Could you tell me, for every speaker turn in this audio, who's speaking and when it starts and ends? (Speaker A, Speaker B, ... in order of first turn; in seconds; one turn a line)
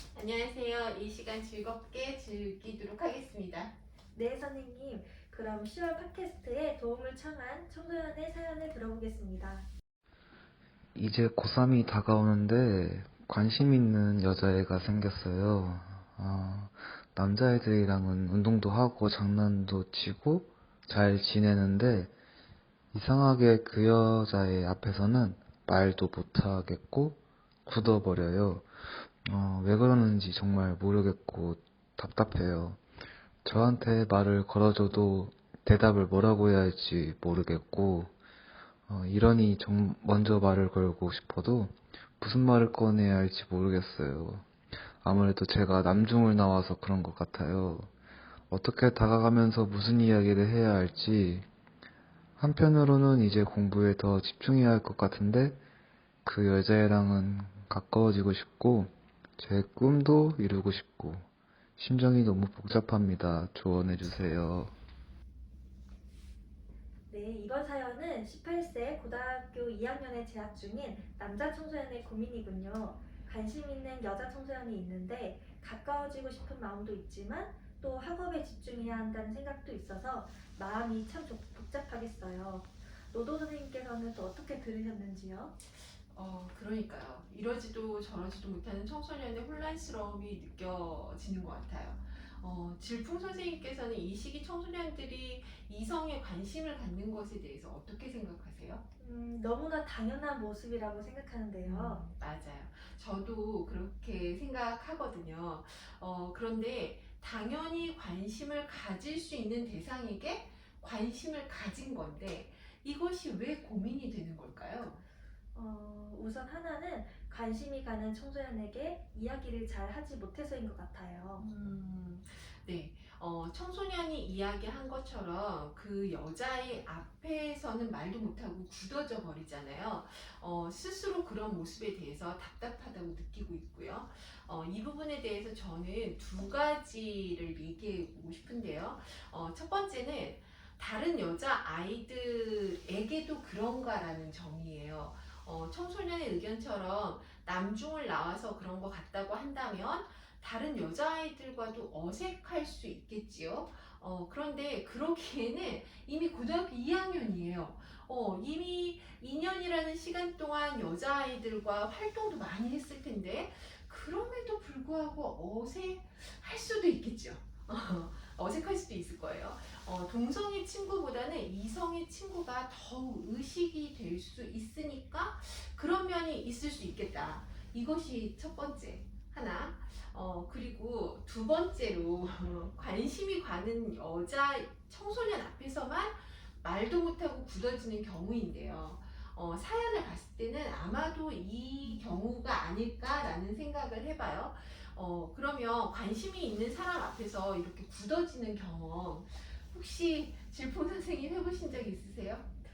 Speaker A: 0.1-3.7
Speaker B: 4.1-9.7
Speaker C: 10.9-22.1
Speaker C: 22.9-28.7
Speaker C: 29.2-32.8
Speaker C: 33.4-38.1
Speaker C: 38.9-44.5
Speaker C: 45.0-47.9
Speaker C: 48.5-51.5
Speaker C: 52.4-55.6
Speaker C: 56.2-61.2
Speaker C: 61.8-64.7
Speaker B: 67.1-85.5
Speaker A: 86.1-98.8
Speaker B: 99.0-102.0
Speaker A: 101.6-115.0
Speaker B: 115.5-121.5
Speaker A: 121.4-202.5
Speaker B: 191.8-192.2